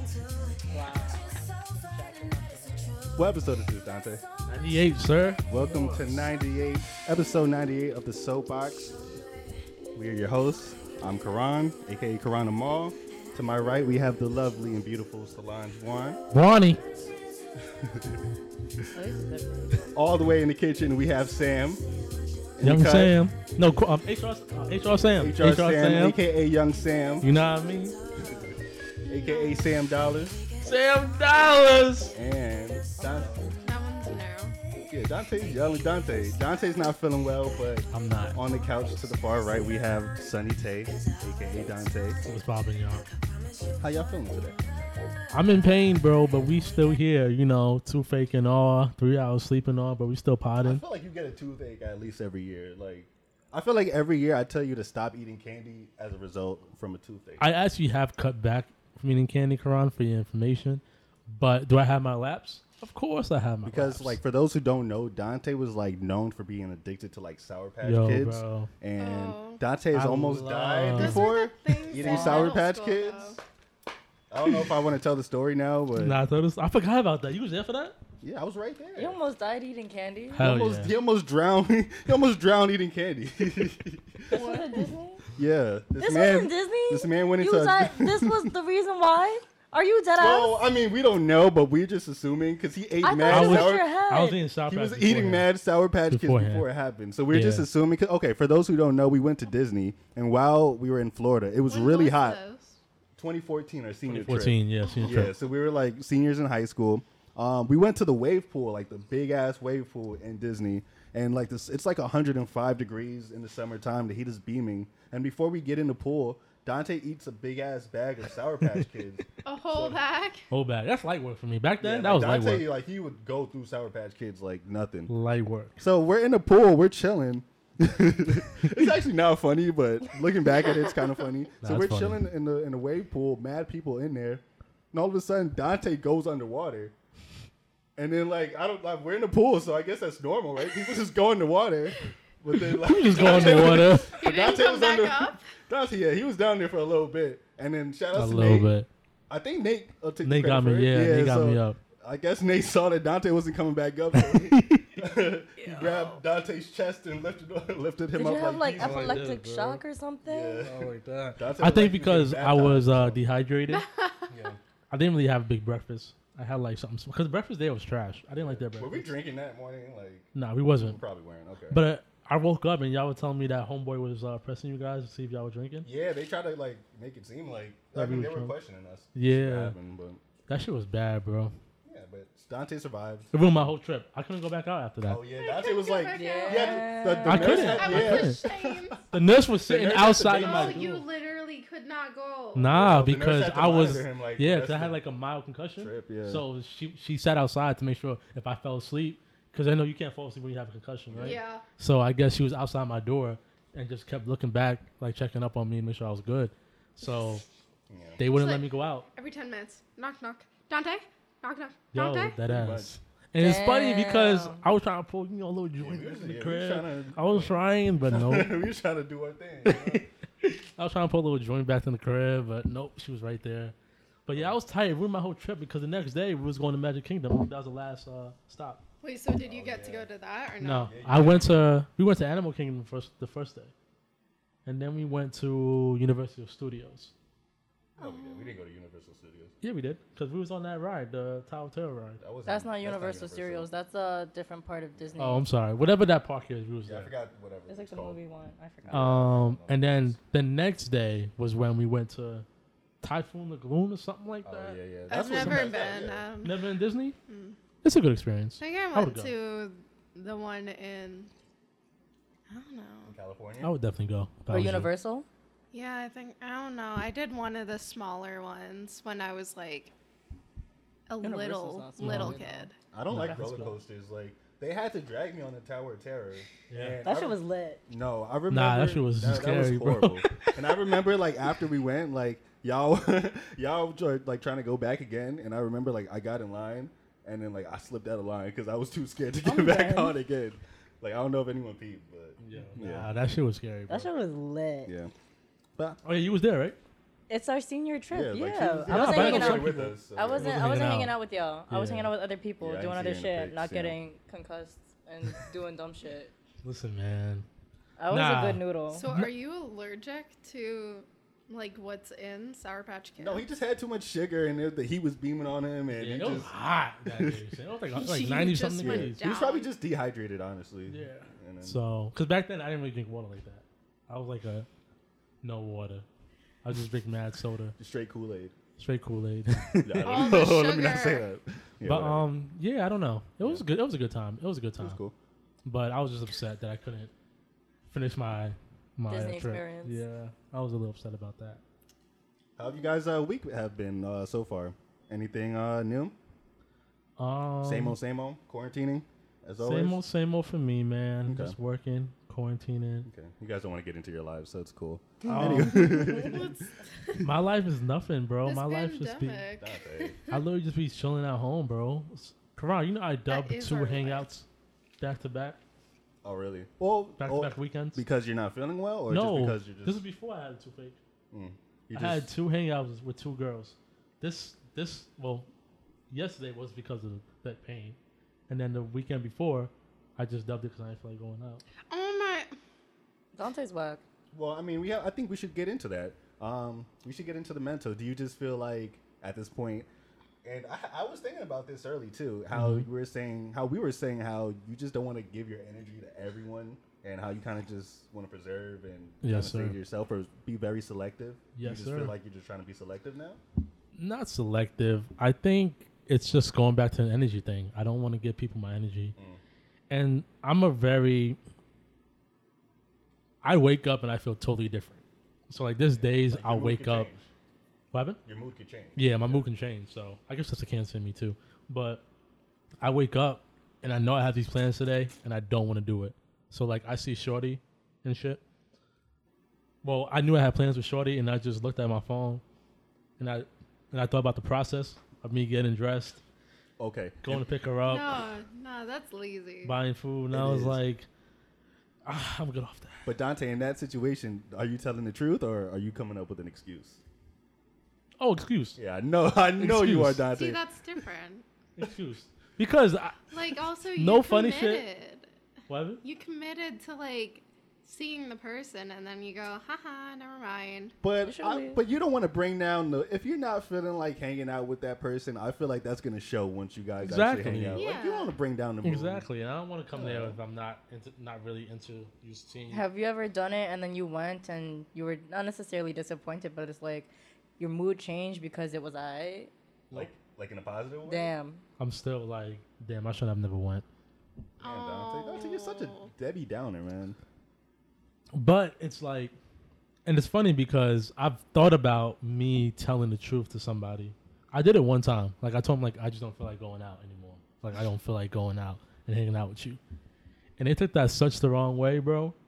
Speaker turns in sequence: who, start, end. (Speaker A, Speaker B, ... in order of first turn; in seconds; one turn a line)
Speaker A: 0.7-3.1
Speaker B: 3.1-4.2
Speaker C: 4.5-6.0
Speaker B: 5.5-9.0
Speaker A: 5.6-6.0
Speaker B: 9.9-16.2
Speaker C: 16.3-17.0
Speaker B: 17.7-18.2
Speaker A: 18.9-19.9
Speaker B: 19.9-21.9
Speaker B: 22.6-23.2
Speaker C: 22.6-26.2
Speaker B: 25.1-27.3
Speaker C: 27.2-28.0
Speaker B: 28.2-28.5
Speaker B: 29.1-30.4
Speaker C: 30.6-32.2
Speaker B: 32.1-33.5
Speaker D: 33.6-34.6
Speaker B: 34.9-42.2
Speaker C: 37.9-38.4
Speaker C: 42.3-43.1
Speaker B: 43.8-44.6
Speaker C: 45.3-50.8
Speaker B: 50.6-57.5
Speaker C: 57.4-64.2
Speaker B: 63.6-73.4
Speaker C: 67.8-68.7
Speaker D: 69.0-69.6
Speaker C: 69.9-71.3
Speaker D: 70.9-73.4
Speaker A: 72.1-72.5
Speaker B: 74.3-76.2
Speaker C: 76.0-78.0
Speaker B: 78.2-79.2
Speaker A: 79.0-80.5
Speaker C: 80.3-81.0
Speaker B: 80.4-88.5
Speaker A: 84.3-85.2
Speaker A: 86.0-90.6
Speaker B: 90.2-93.9
Speaker A: 93.0-94.4
Speaker C: 93.3-95.5
Speaker B: 94.7-102.4
Speaker C: 96.1-96.7
Speaker C: 97.3-97.7
Speaker D: 101.7-102.8
Speaker B: 103.2-120.0
Speaker C: 104.0-105.4
Speaker D: 119.5-120.5
Speaker C: 120.5-122.7
Speaker B: 121.8-125.1
Speaker C: 125.1-125.8
Speaker B: 125.8-136.9
Speaker C: 131.6-132.2
Speaker B: 138.0-148.7
Speaker C: 142.8-144.2
Speaker D: 143.4-145.4
Speaker C: 148.1-148.9
Speaker B: 149.3-159.3
Speaker C: 150.2-151.8
Speaker C: 154.1-155.0
Speaker D: 155.6-156.1
Speaker A: 158.1-160.7
Speaker C: 158.7-159.8
Speaker B: 160.2-163.2
Speaker C: 160.6-163.9
Speaker D: 163.7-164.3
Speaker B: 164.3-164.6
Speaker C: 164.9-169.1
Speaker B: 168.3-171.8
Speaker C: 170.3-171.0
Speaker C: 171.7-175.9
Speaker B: 175.8-180.2
Speaker C: 177.9-178.6
Speaker C: 179.1-179.8
Speaker C: 180.5-181.5
Speaker B: 181.8-183.3
Speaker C: 183.3-185.2
Speaker B: 185.0-189.0
Speaker D: 185.4-189.1
Speaker A: 186.2-188.0
Speaker C: 187.2-188.4
Speaker C: 189.1-191.1
Speaker B: 189.6-190.9
Speaker D: 190.3-192.7
Speaker C: 192.6-207.4
Speaker B: 192.6-195.0
Speaker B: 195.8-196.4
Speaker B: 201.1-201.4
Speaker D: 201.2-201.6
Speaker B: 207.9-208.2
Speaker C: 208.2-209.1
Speaker D: 208.3-212.4
Speaker C: 211.9-218.5
Speaker B: 212.5-213.0
Speaker A: 213.4-214.6
Speaker B: 215.8-220.1
Speaker C: 219.7-228.8
Speaker D: 229.0-230.9
Speaker B: 229.4-230.1
Speaker C: 230.6-233.7
Speaker B: 230.8-231.6
Speaker C: 234.7-237.1
Speaker D: 238.0-238.6
Speaker B: 238.0-239.5
Speaker C: 239.6-242.2
Speaker B: 242.2-243.7
Speaker A: 242.5-245.4
Speaker C: 245.2-247.1
Speaker B: 246.8-248.2
Speaker A: 247.7-249.3
Speaker B: 248.8-250.2
Speaker C: 248.9-252.5
Speaker C: 253.0-255.7
Speaker B: 254.4-256.3
Speaker D: 255.1-256.6
Speaker C: 256.4-257.2
Speaker D: 257.3-257.6
Speaker C: 257.8-259.3
Speaker D: 258.6-261.3
Speaker D: 262.5-263.1
Speaker B: 263.1-263.7
Speaker C: 263.6-264.9
Speaker A: 264.5-265.3
Speaker D: 265.7-269.9
Speaker D: 271.1-272.7
Speaker A: 271.2-273.6
Speaker C: 272.0-272.4
Speaker B: 272.9-293.1
Speaker C: 273.1-273.8
Speaker C: 276.7-277.0
Speaker A: 277.0-277.8
Speaker C: 278.5-280.6
Speaker A: 289.4-290.2
Speaker C: 292.4-294.1
Speaker A: 293.9-294.9
Speaker B: 294.9-295.1
Speaker C: 296.0-296.8
Speaker A: 297.3-306.3
Speaker B: 298.1-300.7
Speaker C: 298.9-301.2
Speaker C: 301.7-302.1
Speaker B: 302.6-304.0
Speaker C: 306.6-307.5
Speaker A: 308.0-309.1
Speaker C: 308.1-309.3
Speaker D: 308.9-313.4
Speaker B: 313.2-316.5
Speaker C: 315.9-319.2
Speaker B: 317.1-317.6
Speaker D: 318.0-319.7
Speaker B: 318.8-321.8
Speaker C: 320.9-324.7
Speaker C: 325.4-326.1
Speaker C: 326.6-327.8
Speaker B: 327.8-328.6
Speaker C: 328.8-330.4
Speaker B: 329.8-332.3
Speaker D: 330.1-331.2
Speaker C: 331.8-335.0
Speaker B: 334.8-335.1
Speaker C: 335.6-337.1
Speaker C: 337.9-341.6
Speaker A: 339.1-340.0
Speaker B: 342.6-346.2
Speaker C: 347.2-348.0
Speaker B: 347.6-350.0
Speaker C: 349.6-353.1
Speaker B: 351.3-351.6
Speaker B: 353.1-356.7
Speaker C: 355.2-356.1
Speaker A: 355.2-356.4
Speaker C: 357.2-359.4
Speaker D: 358.5-360.4
Speaker B: 359.6-360.2
Speaker C: 360.3-364.5
Speaker D: 363.3-364.3
Speaker C: 365.0-365.6
Speaker B: 366.2-370.0
Speaker C: 367.2-368.0
Speaker C: 369.1-371.0
Speaker B: 371.3-372.3
Speaker C: 371.9-375.5
Speaker C: 376.1-378.0
Speaker C: 378.5-381.6
Speaker D: 381.9-382.5
Speaker A: 383.4-384.0
Speaker B: 384.3-389.9
Speaker B: 390.4-403.4
Speaker C: 392.5-392.9
Speaker C: 399.2-399.8
Speaker C: 401.6-402.1
Speaker C: 403.9-409.1
Speaker B: 409.2-409.4
Speaker C: 409.9-411.4
Speaker C: 413.4-417.1
Speaker B: 415.9-417.3
Speaker C: 417.9-418.2
Speaker B: 418.2-419.5
Speaker C: 419.0-422.0
Speaker C: 422.8-428.4
Speaker C: 429.8-432.4
Speaker C: 433.2-436.2
Speaker B: 436.8-437.5
Speaker C: 437.2-438.1
Speaker D: 437.9-439.7
Speaker C: 439.6-441.1
Speaker B: 440.3-440.8
Speaker C: 442.1-443.0
Speaker B: 443.1-447.0
Speaker C: 448.2-448.8
Speaker B: 448.8-450.6
Speaker C: 449.6-450.3
Speaker D: 450.3-451.4
Speaker C: 451.8-453.3
Speaker D: 453.3-455.3
Speaker C: 454.0-454.8
Speaker C: 455.7-456.0
Speaker D: 456.0-461.0
Speaker B: 461.0-469.3
Speaker A: 461.2-461.8
Speaker C: 467.0-467.8
Speaker D: 467.8-468.4
Speaker C: 468.8-472.9
Speaker B: 469.9-470.4
Speaker A: 472.7-479.5
Speaker B: 479.9-481.3
Speaker A: 481.1-481.6
Speaker C: 481.8-483.9
Speaker D: 484.6-486.1
Speaker B: 484.6-487.2
Speaker C: 488.3-489.4
Speaker C: 490.1-499.8
Speaker C: 500.6-502.4